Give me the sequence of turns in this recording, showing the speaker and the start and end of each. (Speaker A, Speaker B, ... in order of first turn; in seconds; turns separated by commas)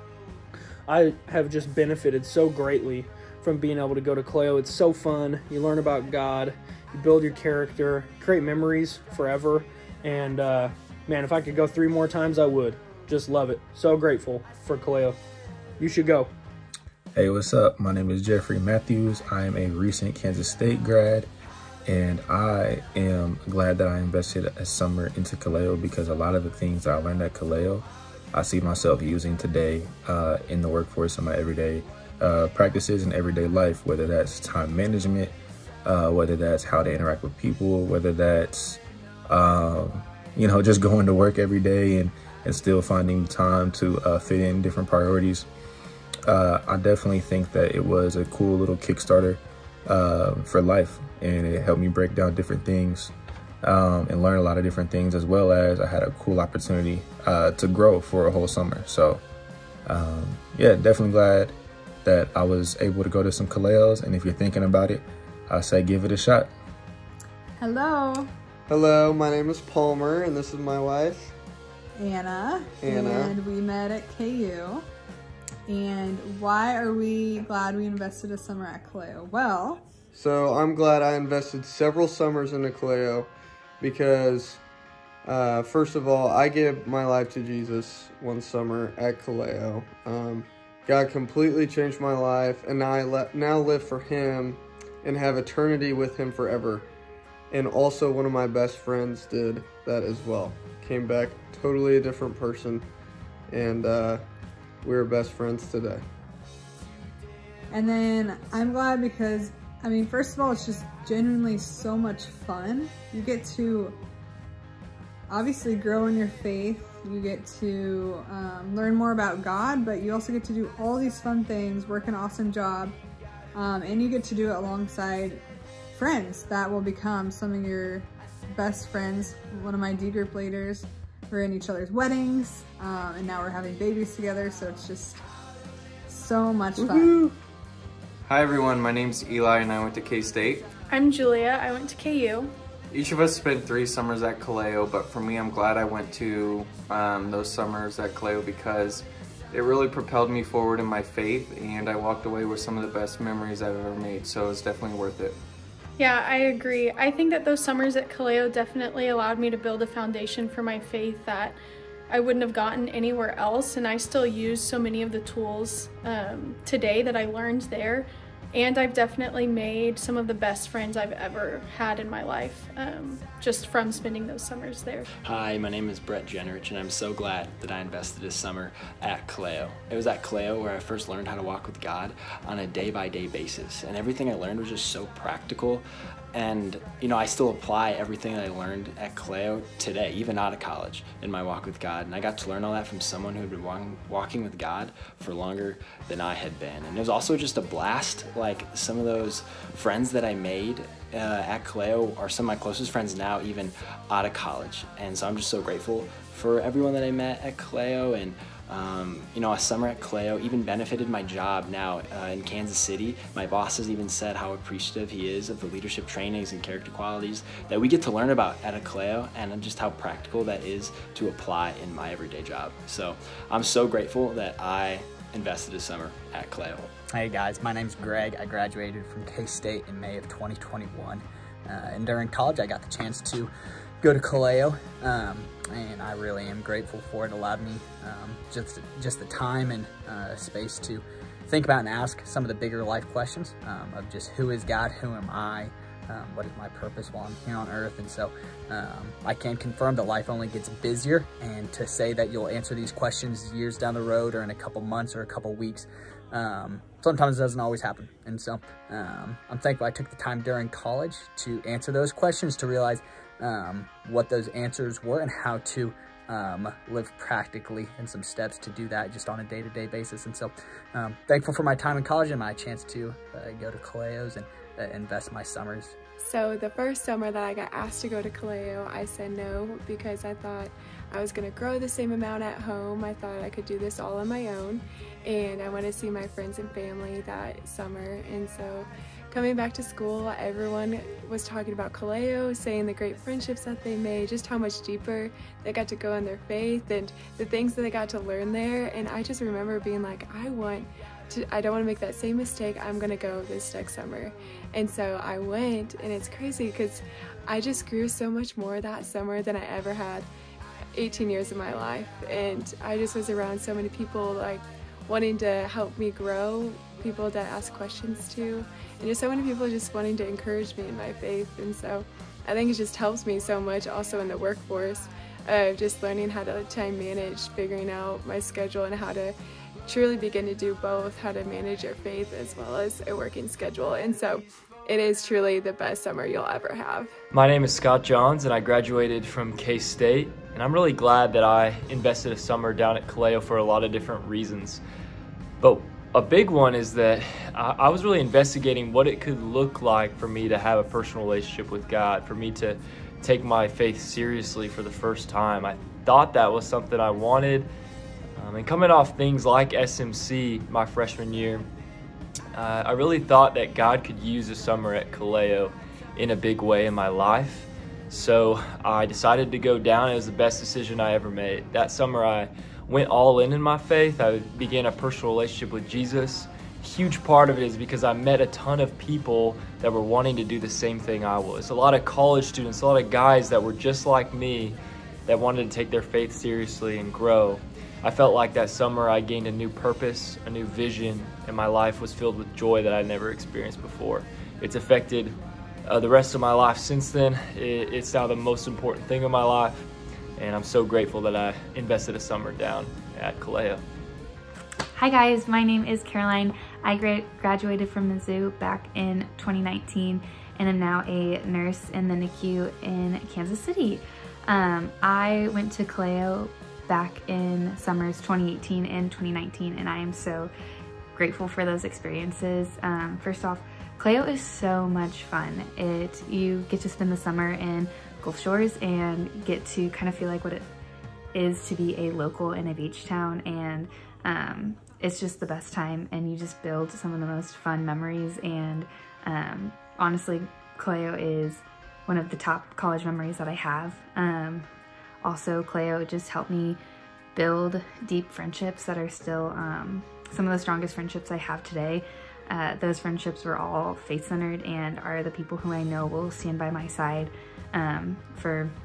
Speaker A: 0.9-15.2, Speaker A: 15.8-16.3, Speaker B: 17.1-21.3, Speaker B: 21.9-35.3, Speaker B: 35.9-45.5, Speaker B: 46.3-53.1, Speaker B: 53.6-59.2, Speaker B: 59.9-66.5, Speaker C: 67.6-68.3, Speaker D: 68.7-71.3, Speaker C: 72.0-74.8, Speaker D: 72.8-73.4, Speaker C: 75.7-79.8, Speaker D: 80.1-84.6, Speaker D: 85.2-96.9, Speaker D: 97.5-102.9, Speaker D: 103.5-104.2, Speaker D: 104.8-106.0, Speaker C: 107.7-114.0, Speaker C: 115.3-123.0, Speaker C: 123.5-125.4, Speaker C: 126.0-135.2, Speaker C: 136.1-137.3, Speaker E: 138.5-140.6, Speaker F: 140.9-142.6, Speaker E: 143.2-149.0, Speaker E: 149.6-155.3, Speaker F: 156.0-175.1, Speaker G: 175.2-226.9, Speaker H: 227.1-233.5, Speaker H: 234.0-276.0, Speaker I: 276.2-310.3, Speaker I: 310.9-329.4, Speaker I: 329.9-337.1, Speaker J: 337.3-344.8, Speaker J: 345.6-357.7, Speaker J: 358.4-361.7, Speaker J: 362.5-399.9, Speaker J: 400.4-403.8, Speaker K: 404.9-420.5, Speaker K: 421.1-430.7, Speaker K: 431.3-444.7, Speaker K: 445.2-446.8, Speaker K: 447.4-458.7